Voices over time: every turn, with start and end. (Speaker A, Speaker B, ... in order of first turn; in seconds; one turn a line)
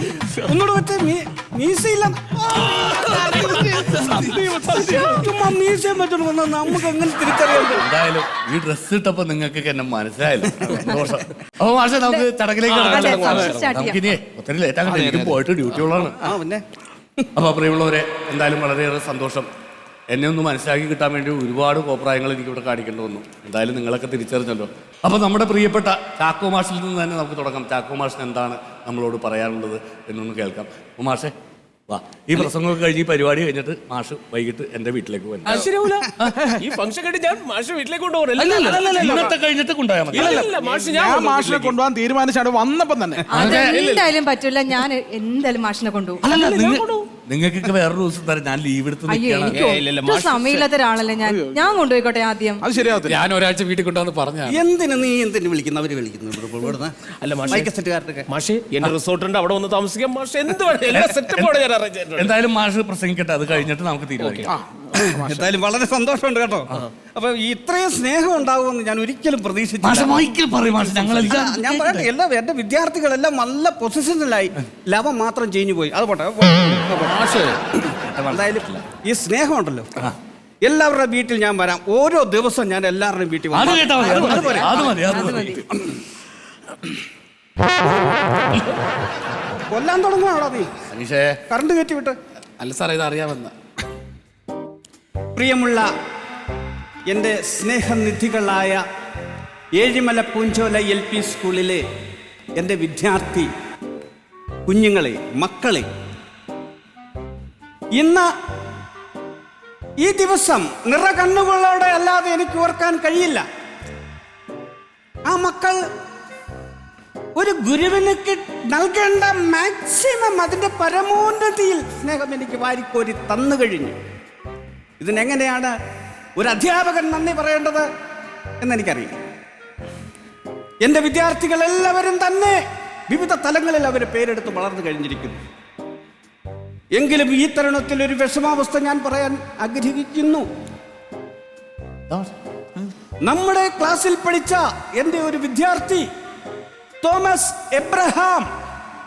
Speaker A: 0.4-7.8
Speaker B: 2.7-4.3
Speaker C: 3.3-5.3
Speaker D: 7.6-16.3
Speaker E: 12.7-13.6
Speaker F: 12.8-14.0
Speaker A: 16.2-16.6
Speaker D: 17.4-19.5
Speaker D: 20.1-31.3
Speaker D: 31.9-36.3
Speaker E: 35.5-36.0
Speaker E: 36.6-39.1
Speaker C: 38.4-39.3
Speaker D: 38.6-40.5
Speaker C: 40.1-43.4
Speaker E: 40.1-41.7
Speaker D: 43.3-43.8
Speaker F: 43.3-46.3
Speaker E: 43.6-44.1
Speaker D: 46.2-49.8
Speaker E: 46.4-47.1
Speaker F: 49.1-52.6
Speaker E: 49.5-50.7
Speaker C: 51.2-51.8
Speaker C: 52.6-53.2
Speaker B: 53.0-54.6
Speaker A: 54.5-56.9
Speaker E: 57.2-57.7
Speaker A: 57.5-58.2
Speaker E: 58.3-62.2
Speaker D: 60.9-61.5
Speaker D: 62.1-64.5
Speaker C: 64.5-65.5
Speaker A: 64.9-70.3
Speaker D: 69.8-72.0
Speaker A: 70.8-77.2
Speaker B: 76.9-77.6
Speaker D: 78.0-78.8
Speaker A: 78.3-79.9
Speaker A: 80.6-85.5
Speaker D: 83.5-85.6
Speaker F: 85.1-85.6
Speaker A: 89.7-90.7
Speaker D: 90.8-91.4
Speaker A: 91.5-92.1
Speaker B: 92.6-93.5
Speaker A: 95.3-95.9
Speaker A: 97.1-98.8
Speaker A: 99.8-101.8
Speaker A: 102.6-103.5
Speaker A: 104.7-105.9
Speaker A: 108.0-108.3
Speaker A: 110.0-113.4
Speaker A: 115.2-115.8
Speaker A: 117.3-124.0
Speaker A: 125.0-125.7
Speaker A: 126.4-127.9
Speaker A: 128.6-129.2
Speaker A: 130.8-135.4
Speaker A: 136.9-140.5
Speaker A: 143.2-146.1
Speaker A: 147.0-148.5